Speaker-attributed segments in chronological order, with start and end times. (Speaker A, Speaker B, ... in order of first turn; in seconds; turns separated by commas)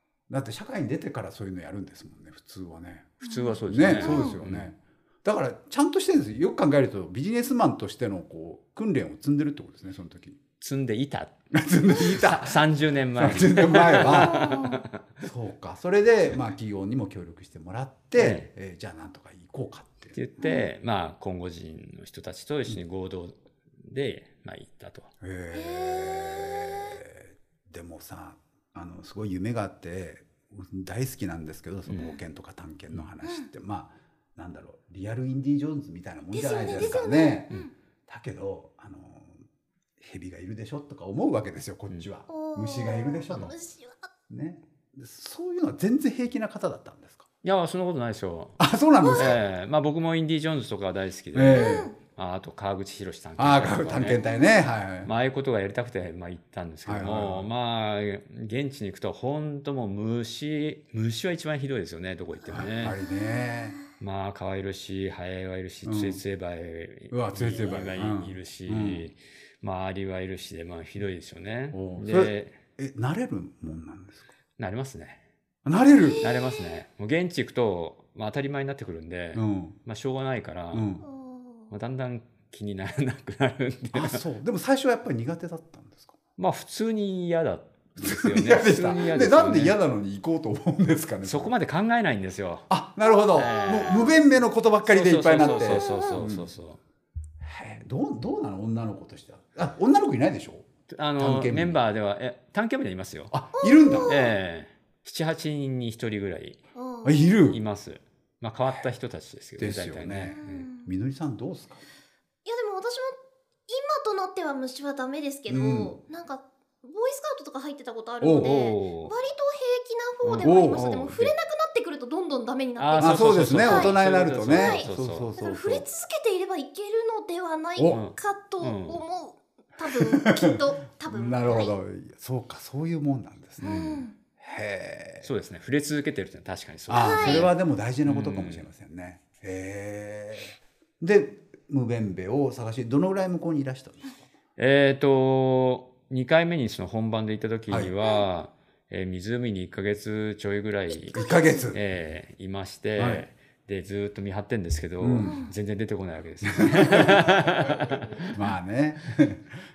Speaker A: 0.3-10.4, Speaker B: 3.2-4.7, Speaker C: 3.2-4.4, Speaker B: 10.6-11.3, Speaker A: 11.5-14.6, Speaker B: 11.9-15.0, Speaker C: 14.1-14.8, Speaker A: 15.2-20.2, Speaker B: 18.2-18.5, Speaker B: 20.1-25.1, Speaker C: 20.4-20.7, Speaker A: 25.2-37.5, Speaker C: 25.5-27.0, Speaker C: 36.3-37.7, Speaker A: 38.1-39.4, Speaker A: 40.0-43.5, Speaker C: 42.3-44.1, Speaker A: 44.3-47.3, Speaker B: 47.4-48.6, Speaker A: 48.6-49.4, Speaker C: 49.0-49.4, Speaker B: 49.2-54.2, Speaker A: 51.3-51.9, Speaker C: 51.5-51.9, Speaker A: 53.4-55.1, Speaker B: 55.0-63.0, Speaker A: 56.9-57.5, Speaker A: 62.5-63.8, Speaker B: 64.0-72.6, Speaker A: 65.8-66.2, Speaker A: 67.1-69.1, Speaker A: 71.7-74.3, Speaker B: 74.6-75.2, Speaker A: 75.6-76.2, Speaker C: 76.0-76.3, Speaker B: 76.2-80.9, Speaker A: 79.3-79.8, Speaker A: 80.7-81.1, Speaker C: 81.1-81.7, Speaker B: 81.7-84.2, Speaker A: 83.9-86.2, Speaker B: 86.4-89.8, Speaker A: 88.0-91.5, Speaker B: 91.2-92.7, Speaker A: 92.7-96.5, Speaker B: 93.3-94.1, Speaker B: 94.9-96.8, Speaker C: 95.7-96.2, Speaker A: 97.4-100.7, Speaker B: 100.9-103.3, Speaker A: 101.2-101.8, Speaker A: 103.3-104.2, Speaker C: 103.6-104.3, Speaker B: 104.1-106.6, Speaker C: 106.8-107.3, Speaker A: 107.0-107.6, Speaker B: 107.5-110.7, Speaker A: 109.6-111.8, Speaker C: 110.3-110.9, Speaker C: 112.5-124.0, Speaker A: 115.5-116.0, Speaker A: 118.2-118.5, Speaker B: 118.4-119.1, Speaker B: 120.2-121.4, Speaker A: 120.4-120.9, Speaker B: 122.8-125.3, Speaker A: 123.0-125.9, Speaker C: 124.5-124.8, Speaker C: 125.4-131.7, Speaker A: 127.8-128.0, Speaker B: 127.9-129.0, Speaker A: 129.9-133.8, Speaker C: 133.6-134.1, Speaker B: 133.6-134.0, Speaker A: 134.4-135.3, Speaker B: 135.2-137.5, Speaker A: 136.9-144.3, Speaker C: 136.9-137.5, Speaker B: 138.1-138.7, Speaker B: 144.6-158.3, Speaker A: 151.1-151.8, Speaker C: 151.2-151.6, Speaker A: 153.0-153.3, Speaker A: 155.0-155.5, Speaker C: 155.2-155.5, Speaker A: 156.5-157.3, Speaker A: 158.3-159.6